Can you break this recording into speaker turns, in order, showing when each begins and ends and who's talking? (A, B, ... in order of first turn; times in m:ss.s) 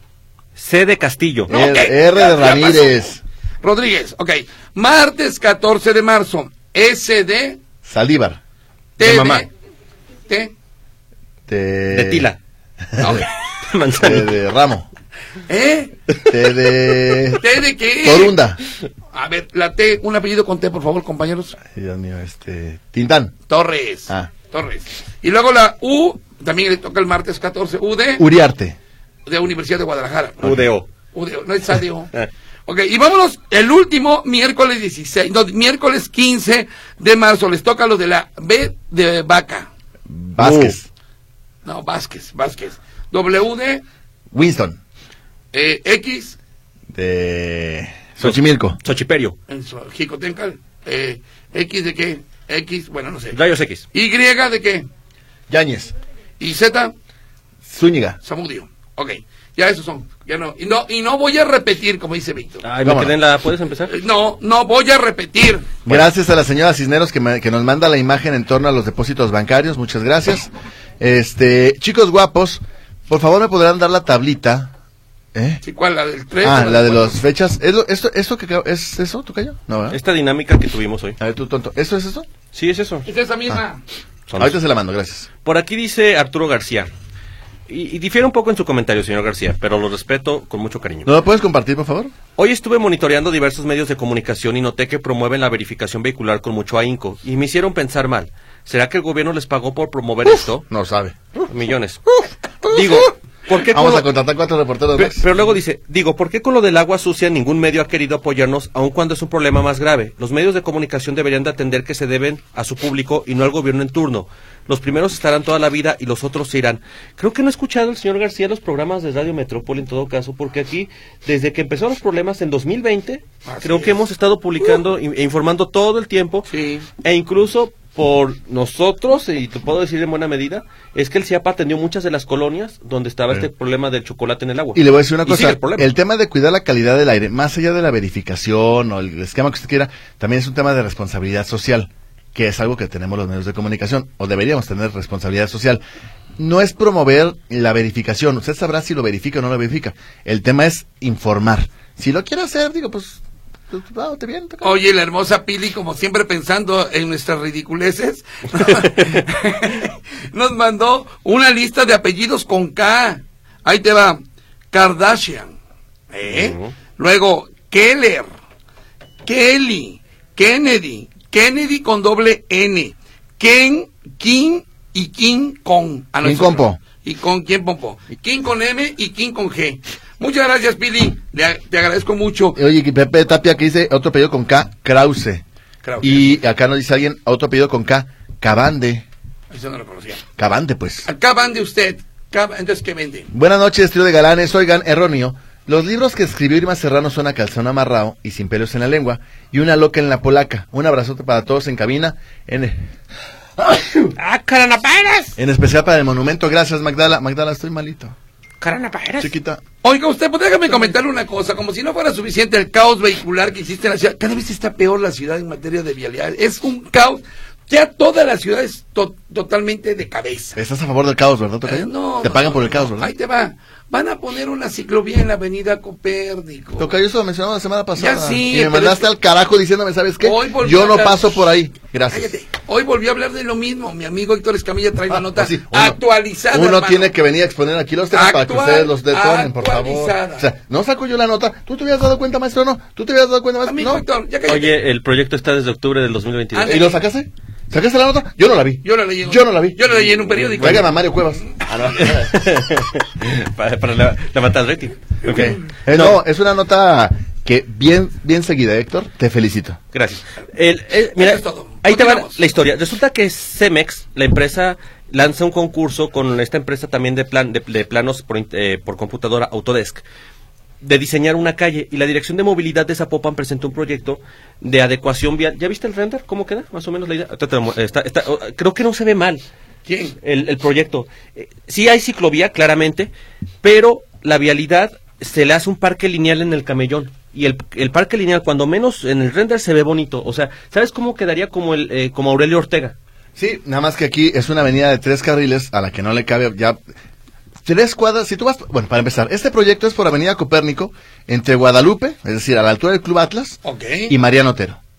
0:00.6-0:01.5 A
0:01.5-0:03.2 B
0:01.5-0:02.9 C
0:03.6-0:07.6 C
0:07.8-0:08.4 B
0:09.0-0:09.5 C
0:09.0-0:09.5 A
0:10.3-0:10.5 C
0:11.5-0:12.3 B
0:11.9-0:12.4 A
0:12.9-0:13.2 B
0:13.0-0:13.3 C
0:13.7-0:14.3 A
0:14.0-0:14.9 B
0:15.5-0:16.0 C
0:16.2-0:17.4 B
0:17.4-0:18.4 C
0:18.0-0:18.6 B
0:19.1-0:21.6 C
0:21.6-0:23.4 B
0:23.5-0:28.3 C
0:28.2-0:28.8 B
0:29.3-0:32.1 C
0:30.4-0:30.9 A
0:32.7-0:39.7 C
0:40.1-0:40.9 B
0:40.4-0:40.8 A
0:41.6-0:43.8 C
0:44.3-0:44.8 B
0:45.5-0:46.4 C
0:46.9-0:48.8 B
0:48.2-0:49.4 A
0:49.5-0:53.4 C
0:53.3-0:53.8 A
0:53.9-0:54.9 C
0:55.5-0:55.9 B
0:56.4-0:56.9 C
0:57.7-0:58.2 B
0:58.2-1:02.6 C
1:02.6-1:03.9 A
1:02.8-1:03.1 B
1:03.9-1:05.8 C
1:05.9-1:14.7 B
1:15.3-1:15.6 B
1:15.6-1:17.2 C
1:16.4-1:20.0 B
1:19.9-1:21.2 A
1:21.2-1:22.3 B
1:22.5-1:23.1 A
1:23.1-1:23.8 C
1:24.3-1:24.6 A
1:24.4-1:25.3 B
1:25.4-1:26.9 A
1:27.7-1:31.1 A
1:31.0-1:32.1 B
1:32.4-1:40.7 A
1:40.4-1:41.5 B
1:41.5-1:44.1 A
1:42.7-1:43.0 B
1:43.7-1:45.2 B
1:45.0-2:06.5 A
2:03.5-2:04.0 C
2:06.5-2:06.9 C
2:07.0-2:15.9 A
2:14.8-2:25.8 B
2:26.4-2:34.8 B
2:34.6-2:44.2 C
2:44.7-2:45.6 C
2:46.1-2:48.3 C
2:46.3-2:46.7 A
2:49.2-3:02.6 C
2:56.2-2:56.8 B
3:02.6-3:05.4 B
3:05.8-3:06.4 C
3:06.0-3:09.0 B
3:09.5-3:10.2 C
3:10.4-3:11.1 B
3:11.0-3:13.3 C
3:13.3-3:22.9 B
3:23.6-3:24.1 B
3:24.2-3:25.4 A
3:25.4-3:28.2 B
3:28.6-3:29.3 A
3:29.2-3:29.6 B
3:29.8-3:40.6 C
3:40.6-3:43.1 B
3:41.7-3:46.9 C
3:46.8-3:52.3 B
3:48.0-3:49.1 C
3:50.2-3:51.4 C
3:52.1-3:57.1 C
3:55.1-3:56.0 B
3:56.5-4:04.0 B
3:58.1-4:00.5 C
4:03.6-4:04.8 C
4:04.5-4:06.9 A
4:06.5-4:07.0 C
4:06.7-4:09.8 B
4:08.8-4:10.9 C
4:10.3-4:10.8 A
4:10.6-4:12.4 B
4:11.9-4:16.2 A
4:15.2-4:19.8 B
4:19.9-4:30.0 A
4:21.2-4:22.4 C
4:30.8-4:39.4 A
4:39.9-4:40.2 C
4:40.2-4:43.1 A
4:43.6-4:53.0 A
4:53.4-4:56.8 B
4:57.6-5:04.8 B
5:03.6-5:04.2 C